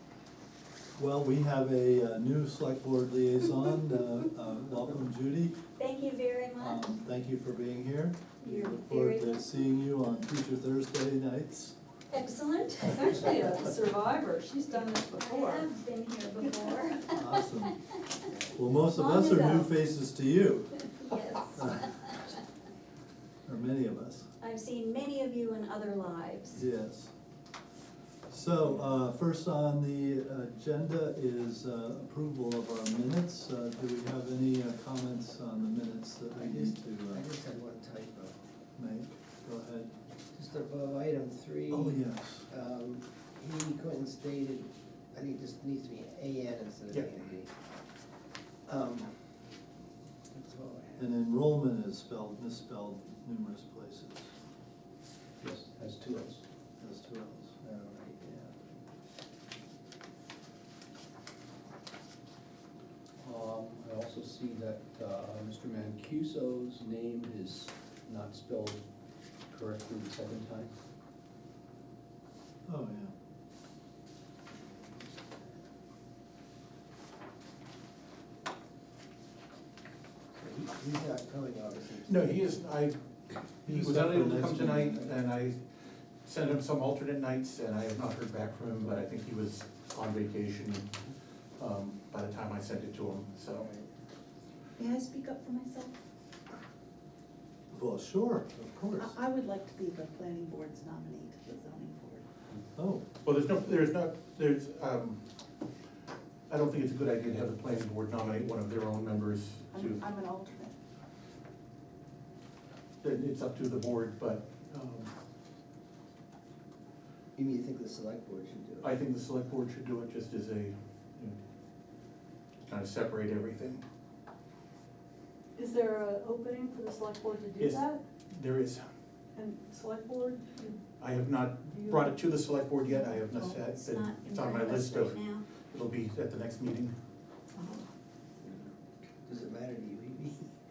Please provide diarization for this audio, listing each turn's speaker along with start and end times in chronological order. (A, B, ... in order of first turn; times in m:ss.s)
0:01.0-0:05.6 A
0:05.8-0:06.9 B
0:06.6-0:11.8 A
0:08.4-0:09.7 B
0:12.1-0:13.6 B
0:12.9-0:15.7 C
0:15.1-0:18.0 B
0:17.1-0:17.7 A
0:18.5-0:20.7 A
0:18.9-0:19.7 B
0:21.0-0:22.3 B
0:23.4-0:24.3 A
0:24.4-0:26.6 B
0:26.5-0:27.1 A
0:28.3-0:37.2 A
0:36.3-0:38.4 D
0:38.8-0:39.9 A
0:40.3-0:47.5 D
0:41.7-0:42.4 A
0:48.6-0:49.1 D
0:50.3-0:51.0 D
0:51.0-0:54.3 A
0:55.4-0:56.4 E
0:56.8-0:58.0 A
0:57.7-0:58.5 D
1:03.2-1:08.8 E
1:09.5-1:10.7 E
1:12.6-1:13.1 A
1:20.3-1:22.6 D
1:22.0-1:25.6 F
1:23.7-1:25.1 A
1:26.2-1:30.9 F
1:31.6-1:33.7 F
1:33.6-1:33.8 D
1:34.8-1:35.9 G
1:37.7-1:39.1 A
1:39.0-1:42.2 G
1:42.7-1:43.0 A
1:43.2-1:45.2 F
1:46.5-1:50.0 F
1:49.7-1:50.7 G
1:53.0-1:55.1 F
1:57.3-1:59.0 D
1:58.8-2:01.4 F
2:02.7-2:03.8 F
2:05.6-2:08.0 C
2:07.6-2:08.8 F
2:09.3-2:10.8 C
2:11.0-2:16.9 F
2:11.7-2:12.1 C
2:13.6-2:15.5 B
2:19.2-2:20.5 D